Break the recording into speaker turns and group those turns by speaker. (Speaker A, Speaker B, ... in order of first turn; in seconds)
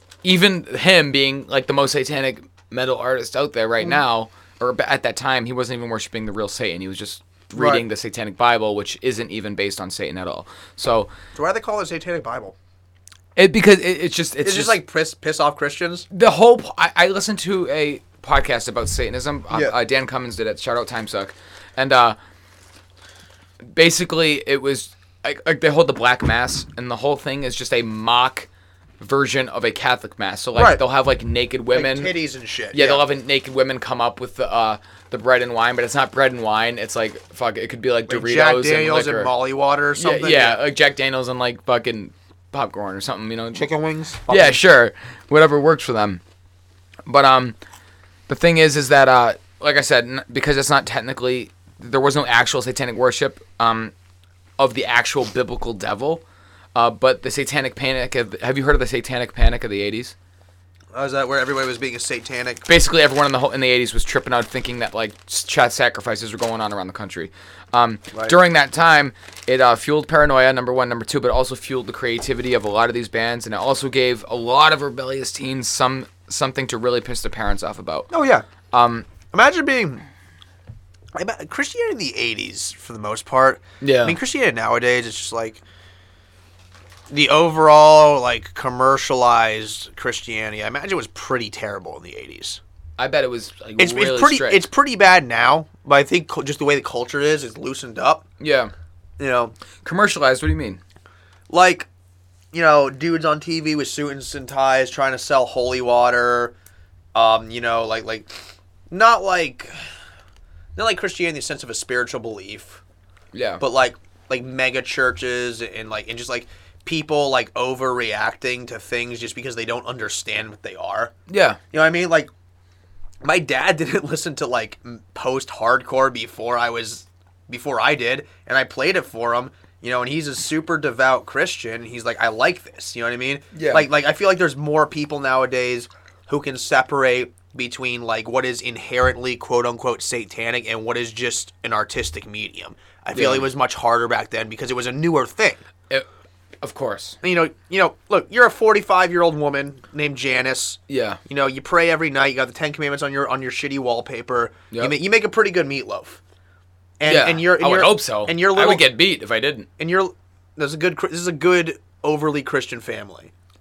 Speaker A: 0.2-11.1, 13.3-14.8, 16.1-22.1, 23.7-28.5, 29.0-32.1, 32.7-39.3, 40.0-43.6, 44.3-46.2, 47.0-47.6, 48.3-53.9, 54.6-56.2, 56.7-60.1, 62.6-78.1, 78.7-79.1, 83.8-84.2, 93.0-94.7, 98.4-98.7, 99.8-100.8, 113.3-113.6, 121.3-121.6, 133.5-133.9, 143.1-143.5, 146.6-147.2, 150.9-151.2, 154.7-154.9, 157.1-159.7
Speaker B: 7.5-7.8, 11.3-12.5, 14.4-16.1, 30.5-30.8, 31.7-33.0, 38.1-40.6, 43.5-44.6, 60.9-62.6, 78.1-78.5, 79.3-80.0, 81.1-85.6, 87.1-92.6, 93.8-98.2, 99.2-99.5, 101.5-101.9, 102.5-106.5, 107.1-108.3, 108.9-109.7, 110.8-112.8, 113.6-121.1, 121.7-122.3, 123.2-145.6, 147.2-156.2, 157.0-158.9, 159.8-163.3